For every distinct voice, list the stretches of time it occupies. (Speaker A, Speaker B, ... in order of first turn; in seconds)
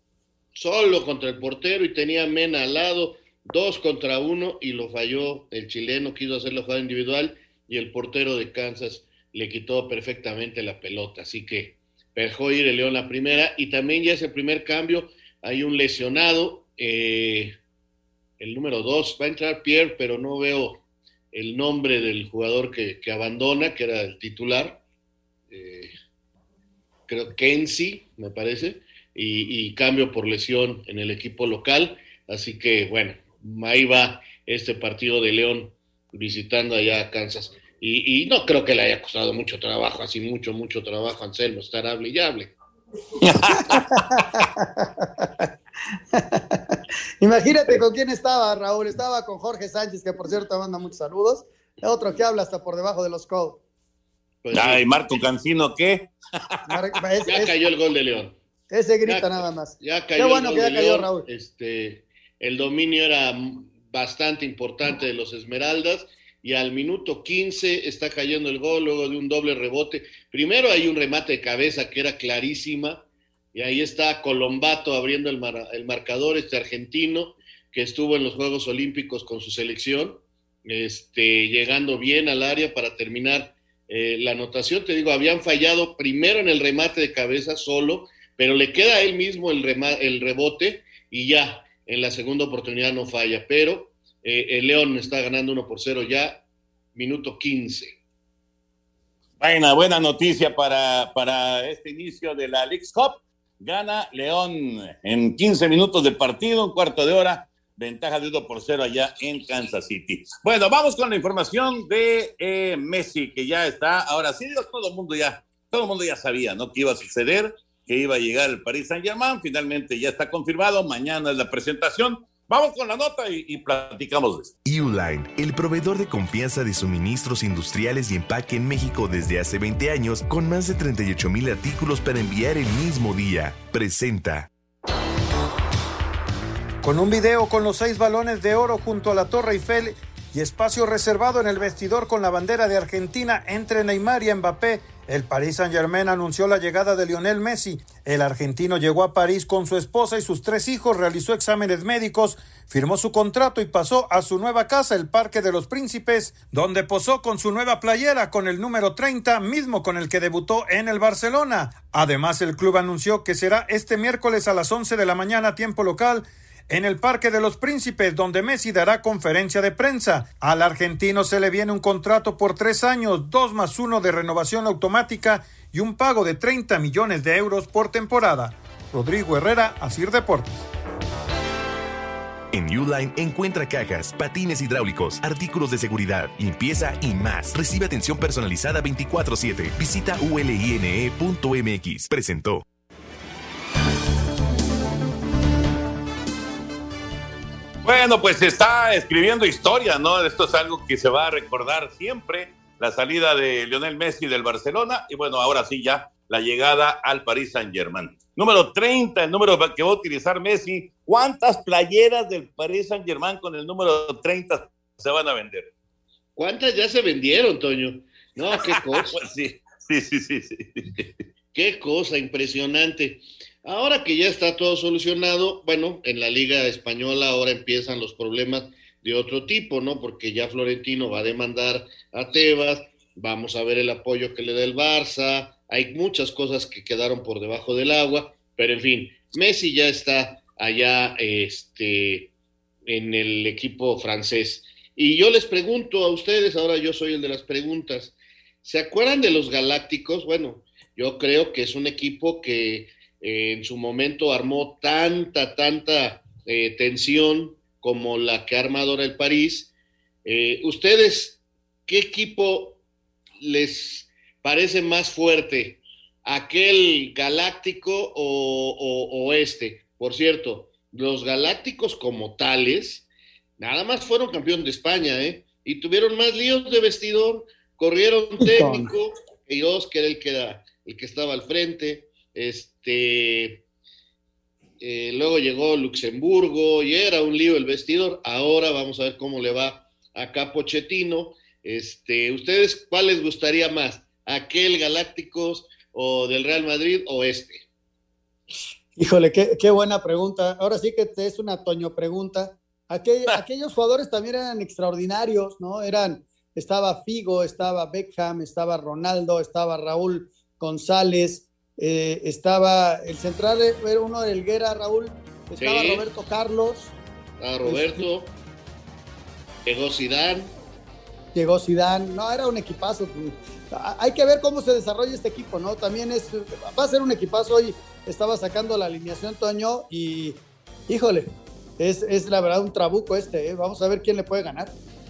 Speaker A: 0.6-17.5, 18.4-20.8, 21.3-24.8, 25.5-25.9, 27.1-42.5, 54.4-55.2, 57.3-58.4, 59.1-73.0, 73.5-96.4, 97.0-98.0, 216.4-219.2, 221.5-242.3, 242.9-259.7, 260.2-262.8, 263.4-273.1, 273.6-283.6, 284.8-297.6, 315.6-316.0, 317.4-318.3, 319.6-320.5
Speaker B: 43.2-43.7, 54.5-56.1, 99.4-124.5, 197.8-215.7, 218.9-221.1
Speaker C: 43.6-45.5, 46.1-53.6, 56.7-57.6, 58.7-61.2, 278.4-278.9, 299.0-316.9, 317.6-318.0, 321.4-334.7
Speaker D: 124.6-134.5, 182.5-192.6
Speaker E: 136.8-180.7